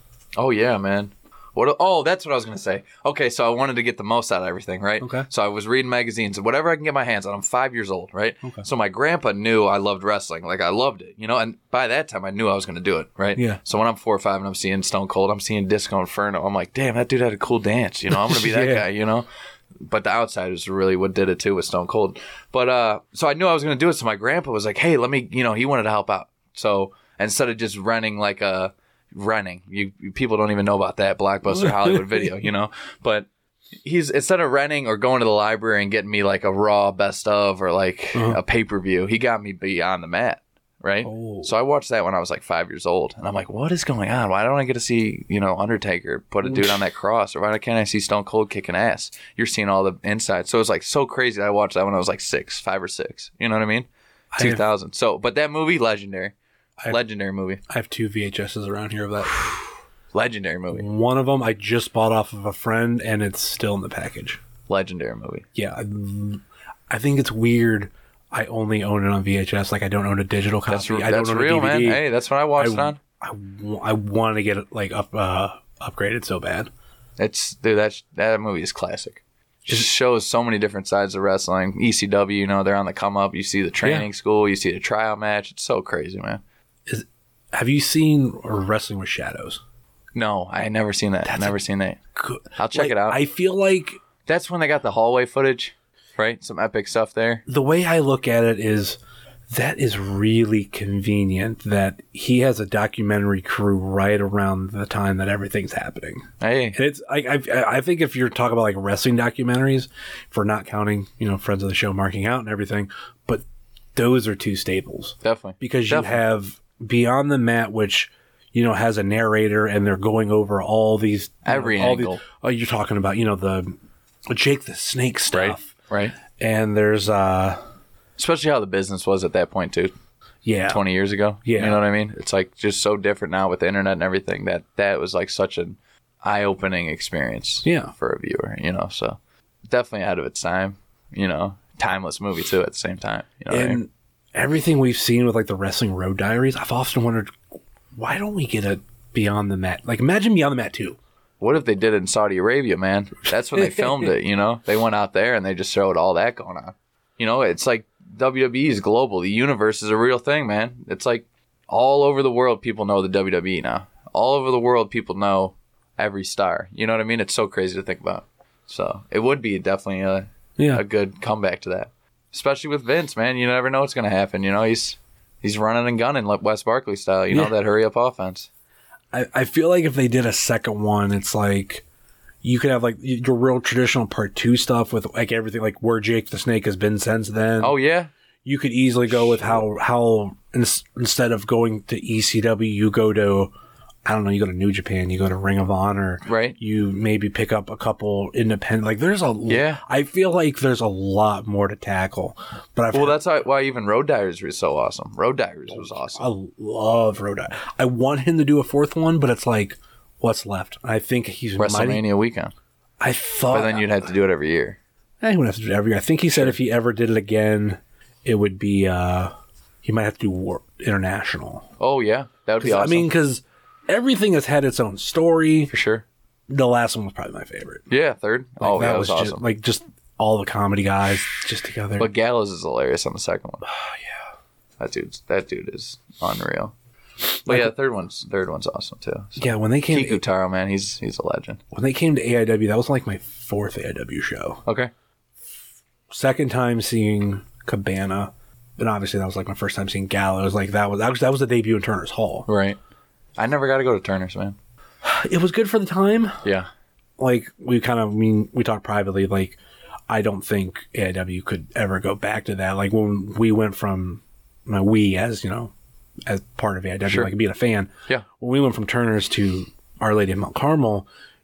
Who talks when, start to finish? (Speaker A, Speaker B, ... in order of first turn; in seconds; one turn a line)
Speaker A: 0.3-19.3
Speaker B: 5.0-5.3
Speaker B: 18.1-18.9
Speaker A: 19.8-33.3
Speaker B: 31.5-32.3
Speaker A: 33.8-56.3
Speaker B: 38.1-38.4
Speaker B: 41.0-41.5
Speaker B: 46.4-46.8
Speaker B: 54.3-54.6
Speaker A: 56.9-57.6
Speaker B: 57.7-59.5
Speaker A: 60.1-60.9
Speaker B: 60.7-64.4
Speaker A: 64.7-65.4
Speaker B: 65.5-76.7
Speaker A: 70.7-73.0
Speaker A: 77.2-86.4
Speaker B: 83.8-84.1
Speaker B: 86.9-89.6
Speaker A: 90.1-92.0
Speaker B: 91.2-91.6
Speaker B: 92.2-94.0
Speaker A: 92.5-93.2
Speaker A: 94.3-97.4
Speaker B: 97.5-113.4
Speaker A: 106.4-106.8
Speaker B: 113.9-123.8
Speaker A: 115.2-116.2
Speaker A: 121.4-122.2
Speaker B: 124.3-125.7
Speaker A: 125.3-126.2
Speaker B: 126.3-127.6
Speaker A: 128.2-129.9
Speaker B: 130.4-130.8
Speaker A: 130.7-139.2
Speaker B: 131.4-131.8
Speaker B: 137.6-137.9
Speaker A: 139.7-143.8
Speaker B: 143.5-147.4
Speaker B: 147.9-151.0
Speaker A: 151.4-178.5
Speaker B: 153.6-154.1
Speaker B: 170.6-170.8
Speaker B: 177.3-177.5
Speaker B: 179.1-181.8
Speaker B: 182.4-187.7
Speaker A: 187.6-188.1
Speaker B: 188.4-193.5
Speaker B: 194.0-203.2
Speaker A: 196.2-196.6
Speaker A: 199.5-199.8
Speaker A: 202.9-206.3
Speaker B: 205.7-212.0
Speaker A: 211.6-212.5
Speaker B: 213.0-213.9
Speaker A: 213.5-214.8
Speaker B: 215.2-221.7
Speaker A: 221.8-223.1
Speaker B: 222.6-225.7
Speaker A: 225.7-226.0
Speaker B: 226.5-227.9
Speaker A: 227.9-229.4
Speaker B: 228.6-232.1
Speaker A: 232.0-233.6
Speaker B: 233.7-234.0
Speaker A: 234.8-236.7
Speaker A: 237.4-241.6
Speaker B: 237.4-237.7
Speaker B: 239.4-240.2
Speaker B: 241.7-244.6
Speaker A: 244.7-244.9
Speaker B: 246.1-252.5
Speaker A: 252.5-252.8
Speaker A: 253.4-254.6
Speaker B: 255.0-256.4
Speaker B: 257.2-265.7
Speaker B: 266.2-271.1
Speaker A: 267.1-267.3